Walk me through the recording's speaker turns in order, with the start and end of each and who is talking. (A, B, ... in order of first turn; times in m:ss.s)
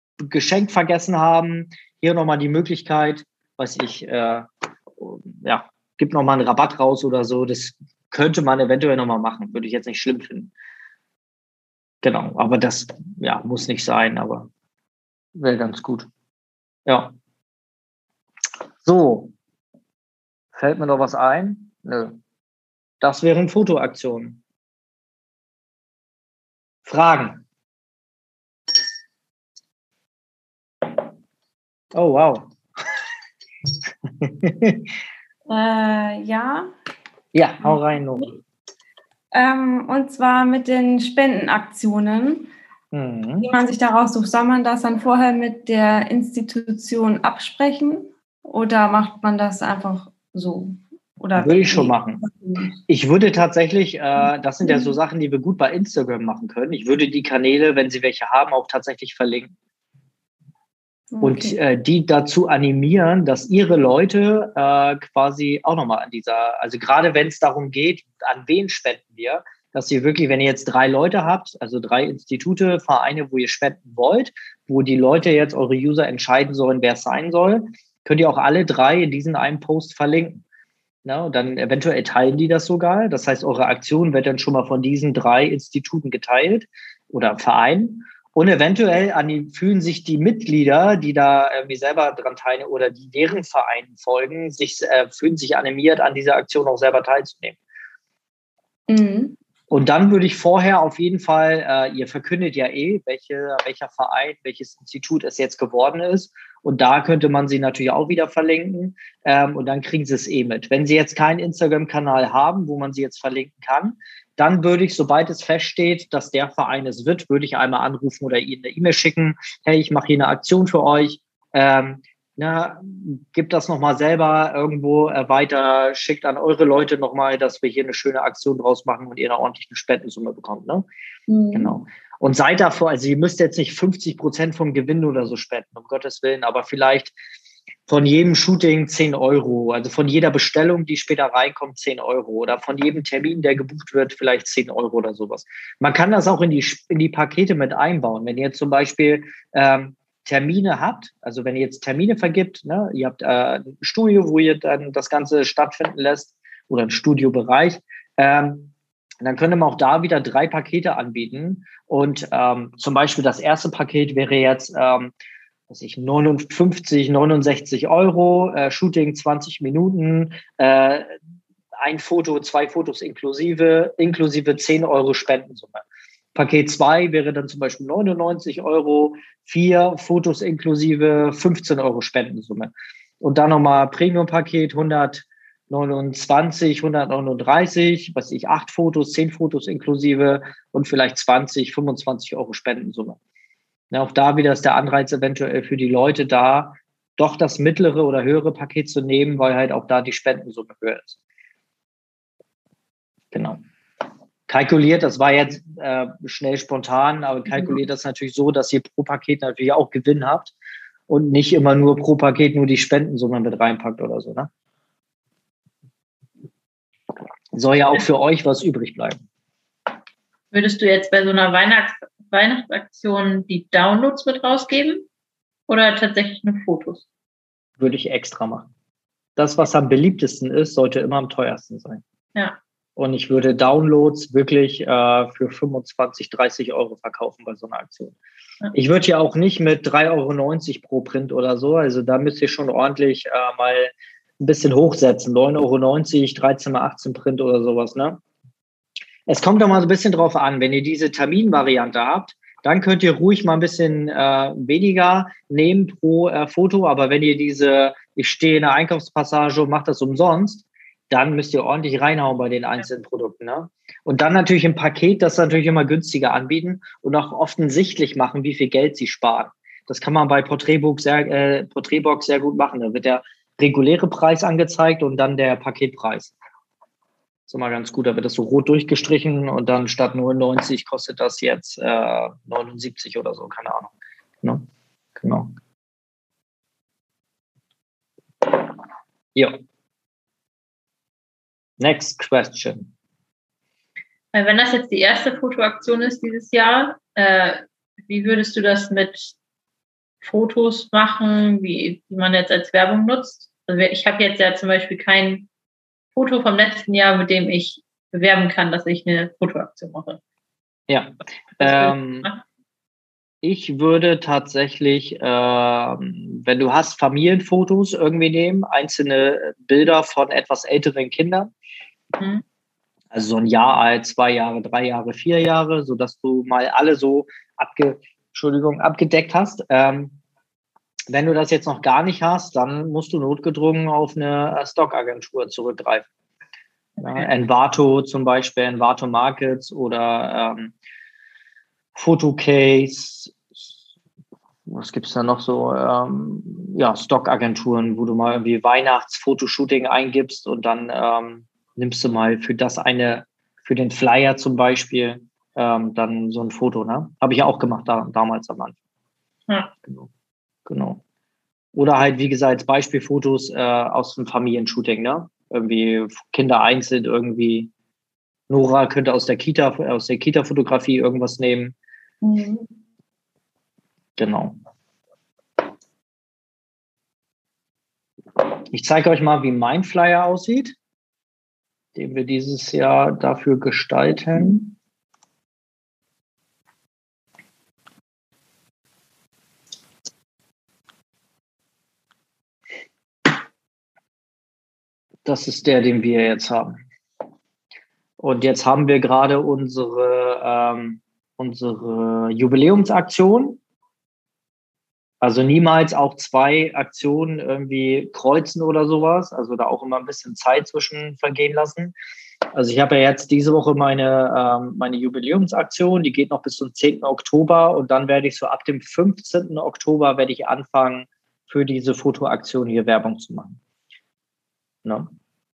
0:00.2-0:10.5 A
0:12.0-0:14.5 A
0:15.4-0:16.1 A
0:16.9-0:17.2 A
0:18.8-0:19.3 A
0:20.6-0:22.2 A
0:23.0-0:24.4 A
0:26.9-0:27.4 A
0:31.9-0:32.5 A
0:34.2-0:34.8 A
0:35.5-0:36.7 B
0:37.3-0:38.3 A
0:39.3-0:42.5 B
0:42.9-0:43.5 A
0:43.4-0:52.8 B
0:51.4-0:52.2 A
0:52.9-0:59.5 A
0:54.6-0:55.0 B
1:01.1-1:01.6 B
1:01.2-1:20.4 A
1:21.0-1:37.6 A
1:38.9-1:39.4 B
1:39.7-2:10.9 A
2:11.3-2:11.7 B
2:11.5-2:17.2 A
2:17.9-2:45.1 A
2:45.7-2:51.1 A
2:51.8-2:55.8 A
2:56.4-3:13.2 A
3:13.9-3:21.2 A
3:23.3-3:23.6 A
3:24.5-3:30.5 A
3:31.1-3:34.5 A
3:37.5-3:39.2 A
3:40.5-3:45.1 C
3:45.7-3:47.0 C
3:47.8-3:48.7 A
3:49.4-3:52.0 A
3:53.0-3:58.2 A
3:58.7-4:08.2 A
4:09.3-4:36.3 A
4:37.5-4:43.9 A
4:44.4-4:45.5 A
4:51.8-4:52.9 A
4:54.3-4:59.3 C
5:00.2-5:05.5 C
5:06.2-5:10.2 C
5:10.9-5:12.3 A
5:11.6-5:12.4 C
5:13.4-5:21.5 A
5:22.2-5:22.4 C
5:23.1-5:30.2 A
5:31.1-5:36.1 A
5:37.0-5:40.7 A
5:42.0-5:43.4 A
5:44.7-5:58.8 A
6:00.7-6:01.0 A
6:01.7-6:07.7 A
6:08.5-6:11.8 A
6:12.2-6:12.6 B
6:14.2-6:14.6 A
6:18.7-6:20.8 A
6:22.0-6:24.8 A
6:35.2-6:36.8 A
6:38.2-6:43.6 A
6:45.2-6:51.9 A
6:52.6-7:03.6 A
7:04.8-7:05.1 A